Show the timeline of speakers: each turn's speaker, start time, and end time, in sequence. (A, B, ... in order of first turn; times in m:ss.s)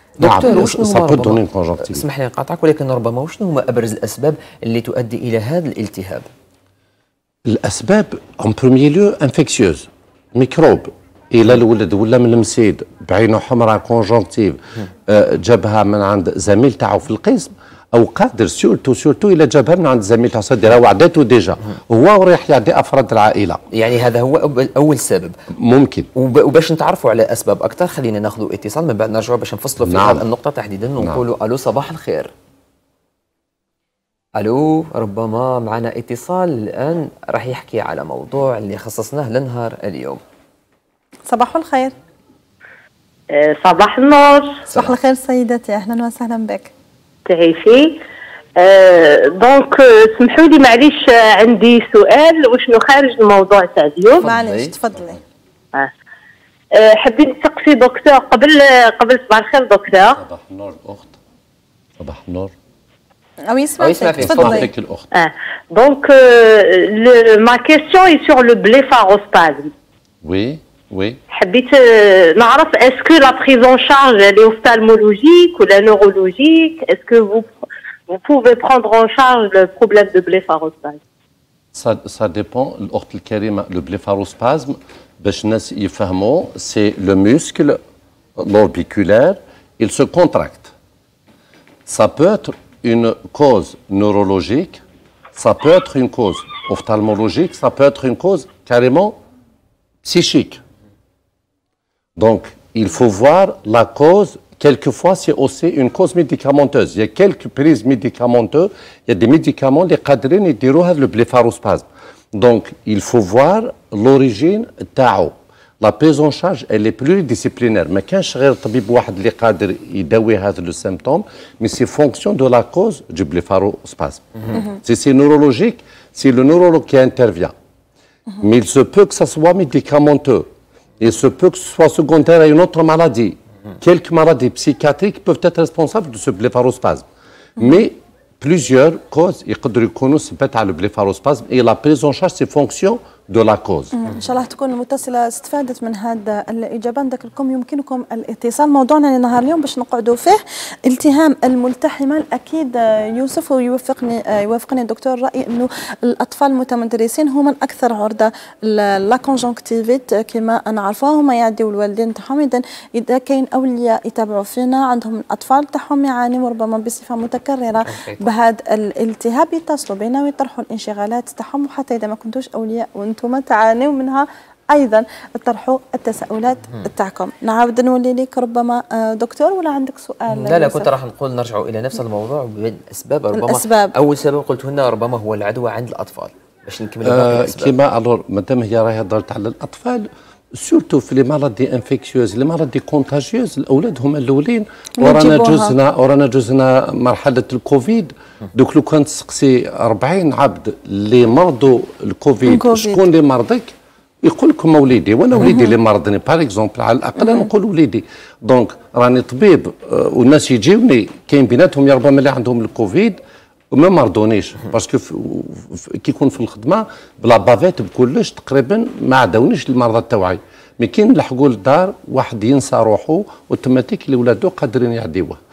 0:00.2-0:06.3 A
0:00.2-0:02.0 B
0:07.4-0:23.6 B
0:23.7-0:25.4 A
0:25.5-0:26.1 B
0:26.1-0:32.3 A
0:29.8-0:30.2 B
0:34.4-0:40.2 A
0:41.3-0:41.9 C
0:43.3-0:44.6 D
0:44.7-0:45.0 A
0:44.7-0:46.7 C
0:47.3-0:48.0 D
0:48.6-0:54.2 D
0:54.2-0:54.7 A
0:54.2-0:55.2 C
0:56.7-1:00.2 D
1:00.0-1:01.2 B
1:02.0-1:02.5 B
1:03.4-1:04.7 C
1:03.8-1:04.7 A
1:04.2-1:05.1 B
1:05.1-1:09.7 D
1:10.2-1:11.2 B
1:11.3-1:17.5 D
1:18.1-1:21.0 D
1:21.7-1:27.8 B
1:28.4-1:30.7 B
1:31.8-1:34.8 B
1:35.3-1:39.1 B
1:40.0-1:40.6 B
1:42.2-2:07.5 B
2:08.4-2:10.5 B
2:11.0-2:17.0 B
2:17.6-2:23.9 B
2:23.9-3:00.9 C
2:47.9-2:48.3 A
3:00.3-3:07.7 A
3:03.3-3:04.0 C
3:07.0-3:33.2 B
3:15.0-3:15.7 C
3:22.4-3:23.0 C
3:25.4-3:25.7 C
3:33.7-3:45.4 B